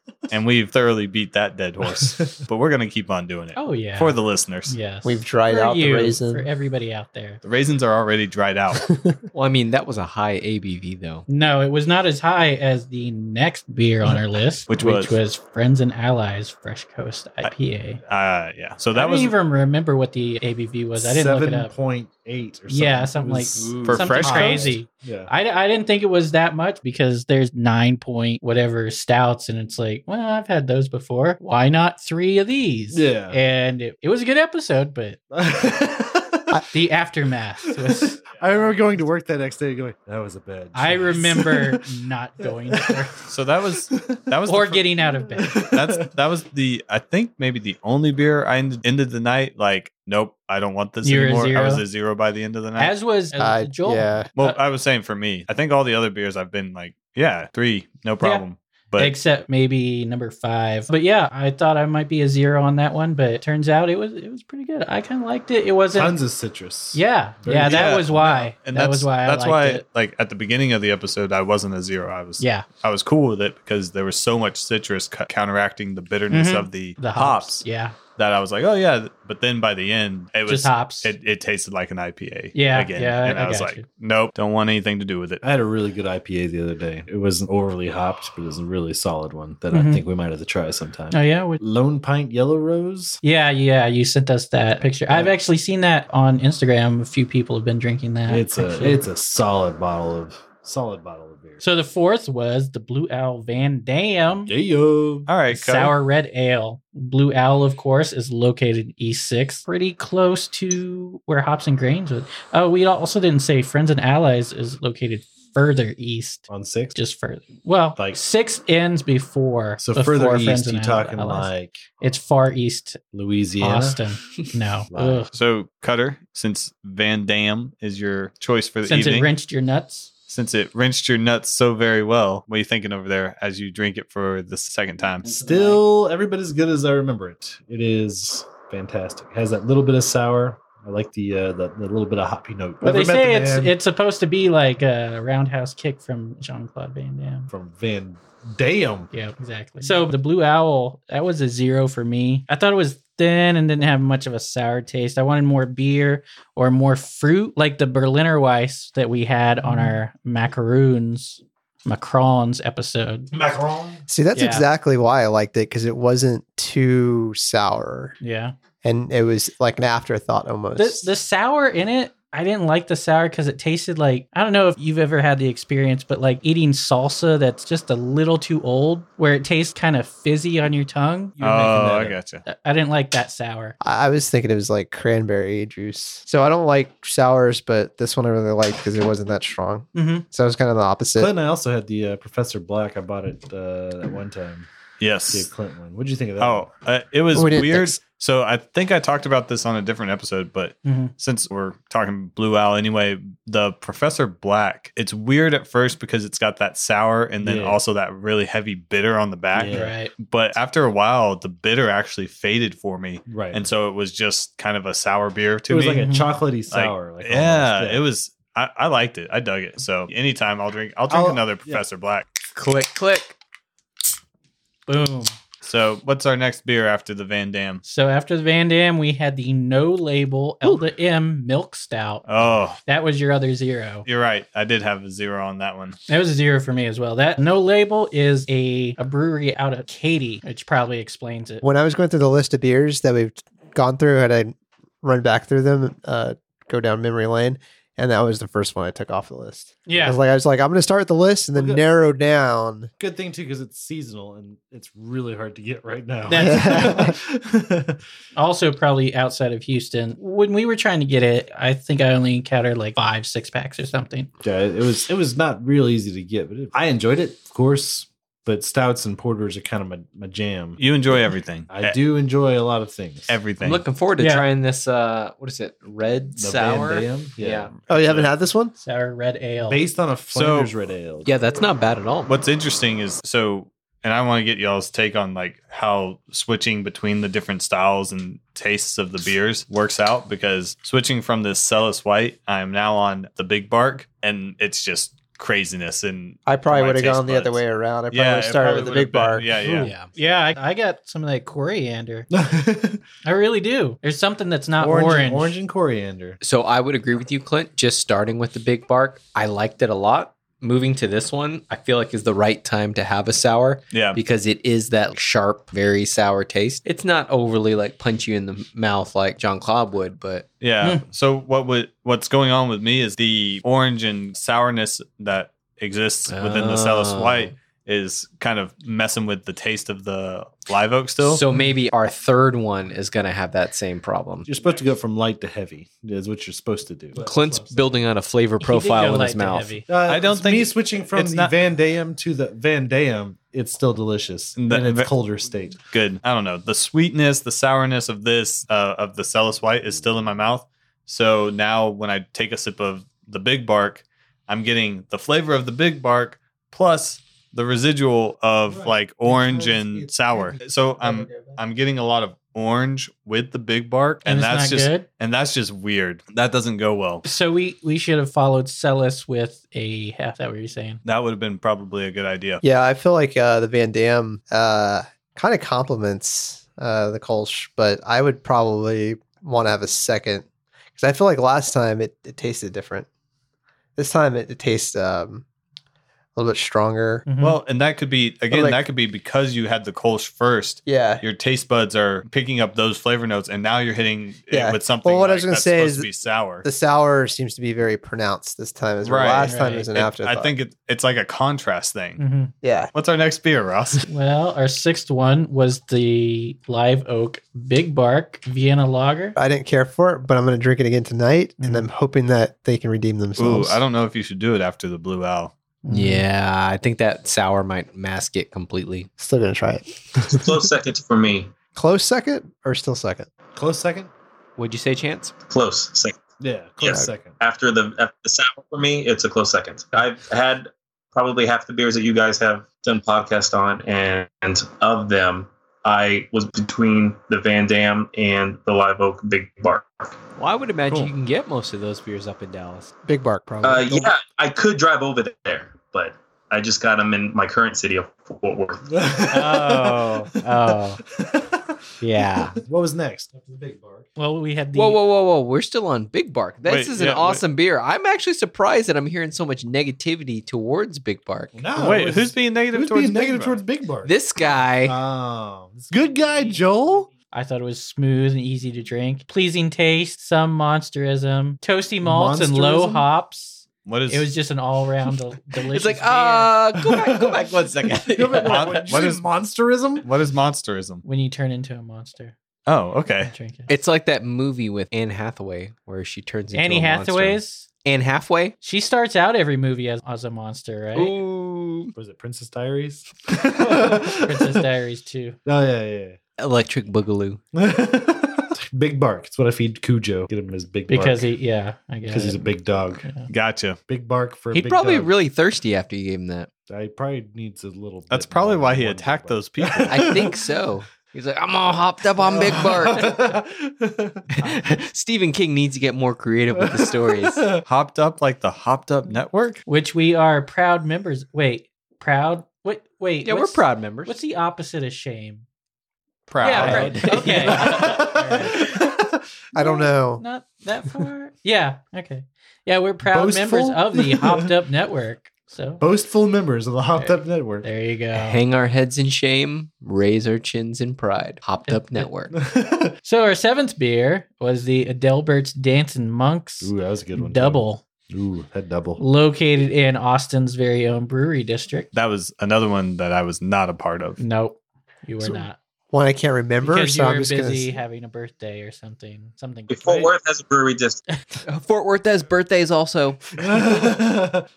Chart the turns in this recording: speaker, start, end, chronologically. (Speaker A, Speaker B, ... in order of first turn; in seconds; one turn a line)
Speaker A: 0.3-4.7
Speaker B: 1.9-2.5
Speaker C: 3.5-7.4
Speaker D: 5.0-6.5
Speaker A: 7.4-8.9
Speaker E: 9.3-11.2
Speaker C: 11.3-18.0
Speaker A: 14.7-15.2
Speaker A: 18.0-19.3
Speaker C: 18.9-21.7
Speaker B: 20.9-25.3
Speaker C: 22.7-35.2
Speaker A: 23.8-24.8
Speaker B: 32.9-33.4
Speaker B: 35.3-36.6
Speaker C: 36.7-38.2
Speaker B: 37.9-41.9
Speaker C: 40.7-43.1
Speaker B: 42.4-43.2
Speaker A: 43.3-45.0
Speaker B: 43.9-44.3
Speaker C: 44.5-45.5
Speaker B: 45.3-46.1
Speaker A: 45.7-52.9
Speaker C: 51.0-51.8
Speaker C: 52.8-54.6
Speaker D: 53.3-54.3
Speaker A: 54.4-59.1
Speaker C: 59.0-66.2
Speaker B: 65.9-68.5
Speaker C: 66.9-69.8
Speaker A: 67.6-77.6
Speaker C: 72.4-72.7
Speaker C: 76.3-78.0
Speaker A: 78.2-85.4
Speaker C: 80.5-81.1
Speaker C: 82.5-83.8
Speaker B: 85.4-93.2
Speaker C: 89.7-90.0
Speaker C: 91.1-91.6
Speaker C: 93.2-99.0
Speaker B: 95.1-95.3
Speaker B: 98.3-101.6
Speaker C: 101.6-104.5
Speaker B: 104.5-105.3
Speaker A: 105.3-105.9
Speaker C: 105.5-123.0
Speaker B: 116.5-117.0
Speaker B: 119.8-121.8
Speaker B: 123.1-124.0
Speaker C: 123.6-125.3
Speaker B: 124.9-125.3
Speaker A: 125.3-129.3
Speaker C: 128.8-130.1
Speaker A: 130.3-135.2
Speaker C: 135.2-135.8
Speaker B: 135.2-143.7
Speaker C: 142.8-147.5
Speaker B: 147.5-149.1
Speaker C: 149.1-163.3
Speaker B: 163.3-164.0
Speaker D: 164.1-168.1
Speaker C: 164.3-164.7
Speaker C: 168.2-168.5
Speaker D: 168.8-171.1
Speaker C: 170.8-181.4
Speaker B: 181.4-182.2
Speaker A: 181.4-182.4
Speaker C: 182.4-183.8
Speaker D: 183.8-191.3
Speaker C: 189.9-190.2
Speaker B: 191.2-194.7
Speaker A: 195.0-195.5
Speaker B: 195.3-196.7
Speaker A: 196.4-216.1
Speaker D: 197.3-198.0
Speaker C: 200.8-201.1
Speaker B: 207.4-207.8
Speaker B: 209.5-210.0
Speaker C: 209.7-210.1
Speaker B: 213.2-213.7
Speaker B: 215.7-218.0
Speaker C: 216.0-216.3
Speaker A: 216.7-222.2
Speaker B: 221.1-221.8
Speaker E: 222.5-223.4
Speaker C: 224.9-225.3
Speaker A: 225.6-227.8
Speaker C: 227.8-232.2
Speaker A: 232.3-232.8
Speaker C: 232.8-234.1
Speaker A: 234.1-236.0
Speaker C: 236.1-241.6
Speaker D: 241.6-252.9
Speaker C: 249.8-250.2
Speaker B: 251.6-251.8
Speaker B: 253.0-258.0
Speaker C: 256.3-257.0
Speaker D: 256.3-257.1
Speaker C: 258.4-264.3
Speaker B: 264.4-273.4
Speaker A: 270.8-272.0
Speaker A: 273.3-273.8
Speaker E: 273.6-277.7
Speaker C: 274.2-274.4
Speaker B: 276.4-277.8
Speaker D: 277.9-278.7
Speaker C: 278.8-279.8
Speaker B: 279.6-281.3
Speaker A: 280.3-280.7
Speaker E: 281.2-282.3
Speaker A: 282.2-299.9
Speaker D: 296.4-299.7
Speaker E: 299.8-300.1
Speaker C: 300.1-302.3
Speaker B: 302.3-303.0
Speaker C: 303.2-305.6
Speaker B: 304.8-306.4
Speaker E: 306.4-320.5
Speaker A: 313.9-314.2
Speaker A: 320.6-331.4
Speaker E: 326.3-327.5
Speaker E: 331.2-334.5
Speaker B: 334.4-338.0
Speaker E: 337.1-339.8
Speaker C: 338.6-339.9
Speaker B: 339.9-345.8
Speaker A: 340.1-341.5
Speaker A: 344.6-345.1
Speaker A: 345.9-367.2
Speaker B: 359.5-359.8
Speaker D: 361.0-361.6
Speaker C: 364.2-365.1
Speaker C: 367.2-371.0
Speaker A: 371.0-372.6
Speaker D: 372.6-380.4
Speaker D: 380.9-383.1
Speaker D: 384.0-385.4
Speaker D: 386.4-387.2
Speaker C: 387.2-387.6
Speaker A: 387.4-396.6
Speaker D: 388.5-388.8
Speaker D: 390.9-391.2
Speaker D: 394.5-396.1
Speaker D: 396.6-400.5
Speaker A: 399.0-402.2
Speaker C: 399.4-399.9
Speaker C: 402.2-402.5
Speaker D: 402.6-402.9
Speaker A: 402.9-404.1
Speaker C: 404.1-409.4
Speaker D: 409.4-413.8
Speaker C: 411.6-411.9
Speaker A: 413.4-415.5
Speaker C: 415.8-416.2
Speaker E: 415.9-419.1
Speaker D: 419.2-420.6
Speaker F: 420.3-421.5
Speaker D: 421.7-423.3
Speaker B: 423.5-424.1
Speaker E: 424.6-425.3
Speaker F: 425.5-426.2
Speaker B: 426.4-427.4
Speaker F: 426.8-440.2
Speaker E: 440.4-442.9
Speaker D: 443.1-444.1
Speaker F: 443.6-448.9
Speaker B: 448.9-451.7
Speaker C: 449.4-451.0
Speaker E: 452.0-452.5
Speaker B: 452.2-454.1
Speaker C: 454.2-455.0
Speaker E: 454.7-461.6
Speaker A: 456.6-457.4
Speaker B: 461.5-464.1
Speaker A: 461.7-463.6
Speaker E: 464.0-464.9
Speaker B: 464.8-467.1
Speaker C: 467.3-476.5
Speaker B: 472.0-473.1
Speaker A: 473.8-474.3
Speaker E: 475.7-478.8
Speaker B: 476.8-480.1
Speaker A: 478.4-479.3
Speaker A: 480.0-481.0
Speaker C: 481.0-482.3
Speaker A: 482.6-483.3
Speaker C: 483.2-483.7
Speaker E: 483.7-488.5
Speaker C: 486.5-487.7
Speaker C: 488.6-491.1
Speaker E: 490.9-491.9
Speaker B: 491.9-494.6
Speaker C: 494.1-495.4
Speaker B: 495.4-496.2
Speaker E: 496.4-497.4
Speaker B: 497.5-501.3
Speaker C: 500.9-502.5
Speaker B: 502.1-503.2
Speaker C: 503.0-503.3
Speaker A: 503.3-503.8
Speaker B: 503.9-505.1
Speaker E: 504.5-506.5
Speaker B: 506.7-510.5
Speaker A: 508.1-510.1
Speaker E: 509.9-513.2
Speaker B: 512.2-514.3
Speaker E: 514.4-517.4
Speaker B: 516.5-517.6
Speaker A: 517.7-519.6
Speaker C: 519.6-525.4
Speaker E: 523.2-524.1
Speaker A: 526.3-527.5
Speaker E: 526.4-527.8
Speaker C: 526.4-528.6
Speaker B: 526.4-529.1
Speaker D: 529.5-530.2
Speaker C: 529.6-535.8
Speaker B: 533.0-534.5
Speaker B: 535.8-537.6
Speaker C: 537.0-538.4
Speaker E: 538.1-542.3
Speaker C: 541.6-542.0
Speaker B: 542.3-542.9
Speaker C: 543.0-547.8
Speaker B: 546.6-549.0
Speaker C: 549.0-551.9
Speaker A: 551.9-554.2
Speaker C: 554.2-555.6
Speaker D: 555.9-557.7
Speaker C: 556.6-560.1
Speaker F: 559.7-561.0
Speaker E: 561.5-563.8
Speaker B: 563.4-564.5